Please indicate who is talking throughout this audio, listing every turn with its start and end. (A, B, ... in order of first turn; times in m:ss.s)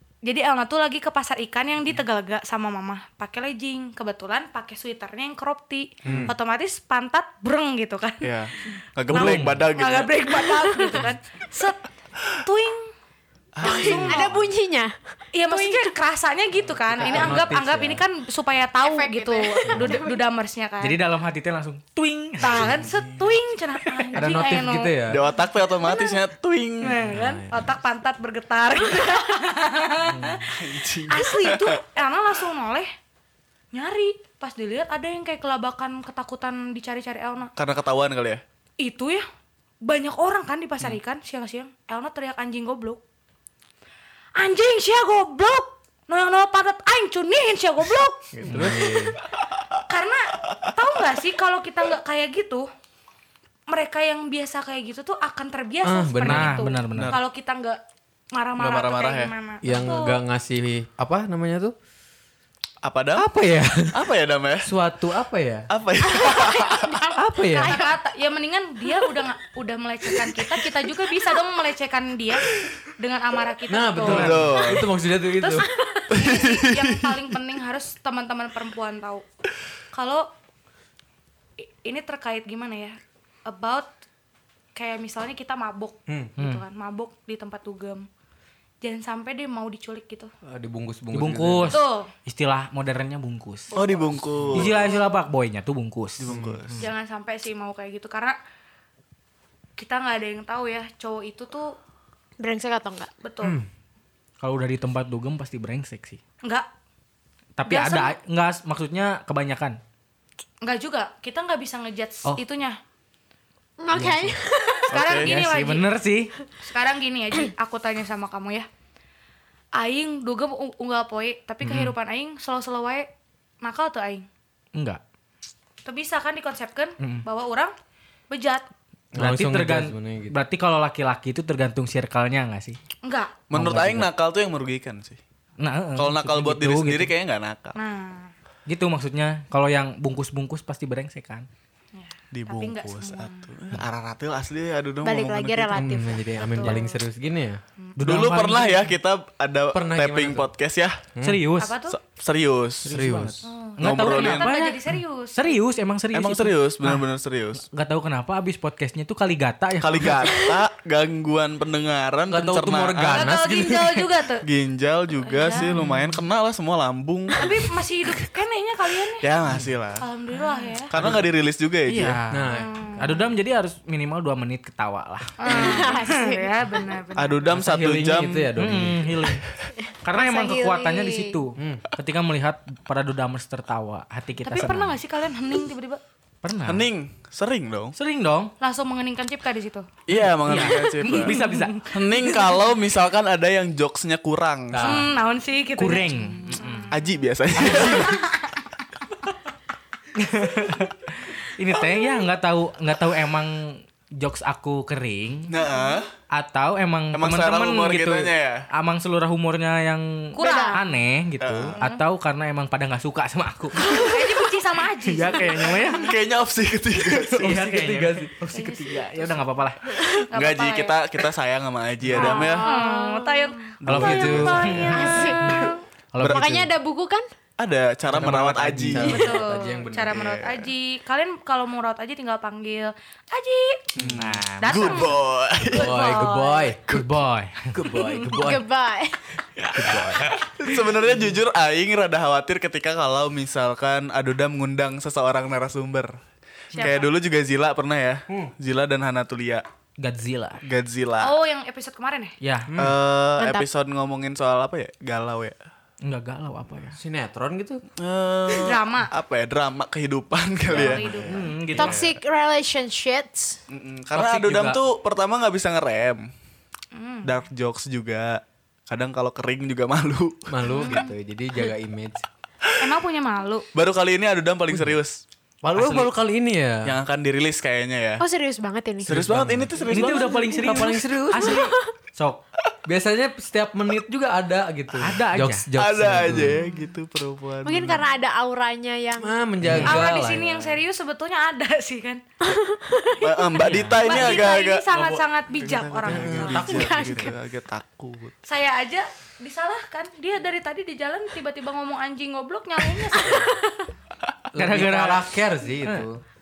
0:00.2-0:08.3 A
0:06.0-0:06.3 B
0:06.0-0:06.3 C
0:08.2-0:10.1 C
0:09.1-0:09.7 D
0:09.1-0:12.9 A
0:10.7-0:11.0 E
0:13.5-0:14.4 C
0:13.6-0:14.3 A
0:13.6-0:15.9 E
0:15.3-0:21.0 A
0:16.9-0:18.0 B
0:17.0-0:17.6 D
0:18.8-0:20.2 E
0:20.8-0:22.7 D
0:22.4-0:24.9 A
0:22.7-0:23.3 C
0:24.1-0:25.2 B
0:25.1-0:27.1 C
0:25.8-0:26.2 A
0:26.8-0:32.9 A
0:27.0-0:27.6 B
0:30.1-0:30.4 D
0:30.5-0:31.8 C
0:33.7-0:37.5 A
0:37.6-0:38.4 C
0:38.8-0:39.2 A
0:39.8-0:43.0 A
0:44.4-0:48.8 A
0:48.4-0:49.2 B
0:48.5-0:48.8 D
0:49.9-0:52.7 A
0:53.7-0:57.8 A
0:55.8-0:56.6 B
0:56.2-0:57.2 D
0:56.9-0:57.2 C
0:58.3-1:00.2 A
0:58.6-0:59.3 C
0:59.6-1:01.7 B
1:02.8-1:03.3 C
1:03.1-1:04.0 B
1:03.9-1:04.7 C
1:04.6-1:05.7 B
1:05.7-1:07.0 C
1:06.1-1:07.9 E
1:07.2-1:07.8 B
1:07.5-1:14.4 A
1:13.7-1:15.7 B
1:14.0-1:14.5 D
1:14.1-1:14.9 C
1:15.4-1:19.2 A
1:15.7-1:16.1 E
1:16.1-1:17.2 C
1:19.9-1:20.3 A
1:21.6-1:23.9 A
1:24.7-1:28.1 A
1:26.1-1:26.3 B
1:26.4-1:26.6 D
1:28.8-1:30.3 A
1:30.4-1:31.8 B
1:31.1-1:33.7 D
1:31.7-1:32.1 A
1:33.7-1:34.9 C
1:34.4-1:34.7 B
1:34.5-1:36.3 D
1:36.2-1:36.9 C
1:36.3-1:36.6 B
1:36.8-1:38.4 A
1:39.8-1:41.8 A
1:42.4-1:43.1 E
1:43.2-1:43.6 A
1:44.4-1:46.2 D
1:47.6-1:49.8 D
1:47.6-1:48.1 A
1:50.6-1:52.8 A
1:53.8-1:55.0 E
1:53.9-1:54.3 D
1:54.9-1:55.3 C
1:54.9-1:55.8 A
1:55.2-1:56.3 D
1:56.6-1:58.7 A
1:59.8-2:03.1 A
2:01.6-2:01.9 D
2:03.6-2:04.3 A
2:04.7-2:05.0 D
2:05.8-2:07.7 A
2:08.3-2:08.7 A
2:09.1-2:10.3 B
2:09.2-2:12.8 D
2:13.0-2:13.3 A
2:13.5-2:15.2 C
2:13.5-2:14.1 D
2:15.6-2:17.1 D
2:16.0-2:17.8 C
2:17.7-2:18.3 A
2:18.7-2:21.5 D
2:21.9-2:23.5 A
2:22.3-2:25.9 C
2:25.0-2:26.9 E
2:25.7-2:27.6 B
2:26.5-2:26.9 A
2:28.0-2:28.9 D
2:28.0-2:31.0 C
2:29.7-2:30.5 B
2:31.2-2:31.4 B
2:31.2-2:31.8 D
2:31.6-2:32.0 A
2:31.9-2:33.0 C
2:32.8-2:33.4 B
2:32.8-2:40.4 D
2:33.4-2:35.6 A
2:33.8-2:34.5 C
2:36.1-2:37.6 C
2:39.8-2:43.3 C
2:42.3-2:44.0 B
2:43.1-2:44.4 A
2:44.4-2:48.3 C
2:45.2-2:45.8 A
2:45.5-2:46.2 D
2:47.3-2:49.2 A
2:49.1-2:50.0 C
2:50.0-2:50.9 A
2:50.9-2:52.2 C
2:51.9-2:55.9 D
2:52.3-2:52.7 B
2:52.5-2:53.3 A
2:55.4-2:57.5 A
2:55.4-2:57.0 E
2:57.2-2:58.5 C
2:57.5-2:59.1 B
2:58.6-2:59.4 D
2:59.9-3:01.4 E
3:00.0-3:05.0 D
3:01.6-3:01.8 B
3:04.4-3:06.0 A
3:06.4-3:06.9 D
3:06.6-3:08.0 C
3:08.0-3:08.5 D
3:08.6-3:09.9 A
3:10.1-3:11.4 C
3:10.1-3:11.8 D
3:10.5-3:12.5 A
3:11.9-3:15.0 C
3:14.7-3:15.1 B
3:14.8-3:17.0 A
3:15.8-3:16.9 D
3:16.9-3:18.2 C
3:17.6-3:18.0 B
3:17.7-3:18.7 A
3:20.2-3:25.5 D
3:25.5-3:26.1 C
3:26.3-3:33.9 D
3:27.1-3:28.6 C
3:30.3-3:30.8 A
3:30.4-3:30.8 E
3:31.4-3:31.8 C
3:33.8-3:34.2 E
3:34.0-3:35.9 A
3:35.0-3:36.1 D
3:35.9-3:37.6 C
3:37.1-3:39.8 D
3:37.3-3:38.4 B
3:38.5-3:39.3 A
3:39.9-3:40.2 E
3:40.3-3:41.0 A
3:40.3-3:42.7 C
3:42.1-3:43.6 E
3:42.1-3:45.8 A
3:43.8-3:44.8 C
3:43.8-3:46.7 D
3:43.9-3:44.5 B
3:44.9-3:45.7 E
3:46.2-3:46.6 C
3:46.2-3:47.2 E
3:47.6-3:49.2 C
3:48.1-3:50.2 B
3:49.0-3:53.8 A
3:50.0-3:50.7 C
3:54.0-3:55.9 C
3:54.2-3:55.1 D
3:54.6-3:56.8 A
3:55.6-3:57.1 B
3:56.9-3:57.7 D
3:57.7-3:58.6 B
3:58.3-3:59.2 E
3:59.6-4:06.1 C
3:59.8-4:00.2 B
3:59.8-4:00.3 D
4:06.7-4:07.1 A
4:06.7-4:09.6 C
4:10.0-4:10.6 D
4:10.6-4:11.4 C
4:11.2-4:12.3 A
4:12.4-4:12.7 D
4:12.7-4:13.0 B
4:12.8-4:15.6 C
4:13.4-4:13.7 E
4:16.0-4:17.0 D
4:17.0-4:17.8 B
4:18.0-4:22.1 C
4:18.6-4:19.1 A
4:20.7-4:21.5 A
4:21.3-4:22.0 D
4:21.7-4:23.6 E
4:23.7-4:26.2 C
4:24.1-4:24.8 D
4:26.9-4:27.3 A
4:27.2-4:30.5 C
4:30.5-4:32.2 B
4:30.7-4:31.1 A
4:32.8-4:33.6 A
4:33.7-4:35.2 C
4:34.7-4:35.0 B
4:35.6-4:36.9 B
4:35.8-4:36.1 D
4:36.8-4:38.2 C
4:38.2-4:39.2 E
4:39.0-4:40.5 C
4:39.1-4:41.7 B
4:39.8-4:42.4 D
4:40.0-4:40.8 E
4:41.4-4:41.8 E
4:42.8-4:46.6 B
4:45.0-4:45.7 D
4:45.8-4:48.0 C
4:47.6-4:49.3 E
4:49.2-4:50.7 B
4:49.6-4:50.1 D
4:49.8-4:52.2 A
4:52.4-4:53.7 E
4:53.2-4:58.4 C
4:53.6-4:54.0 D
4:54.0-4:56.6 A
4:56.1-4:57.3 B
4:56.4-4:57.3 E
4:58.4-5:03.6 A
5:03.3-5:03.6 E
5:04.5-5:06.2 B
5:04.6-5:05.3 D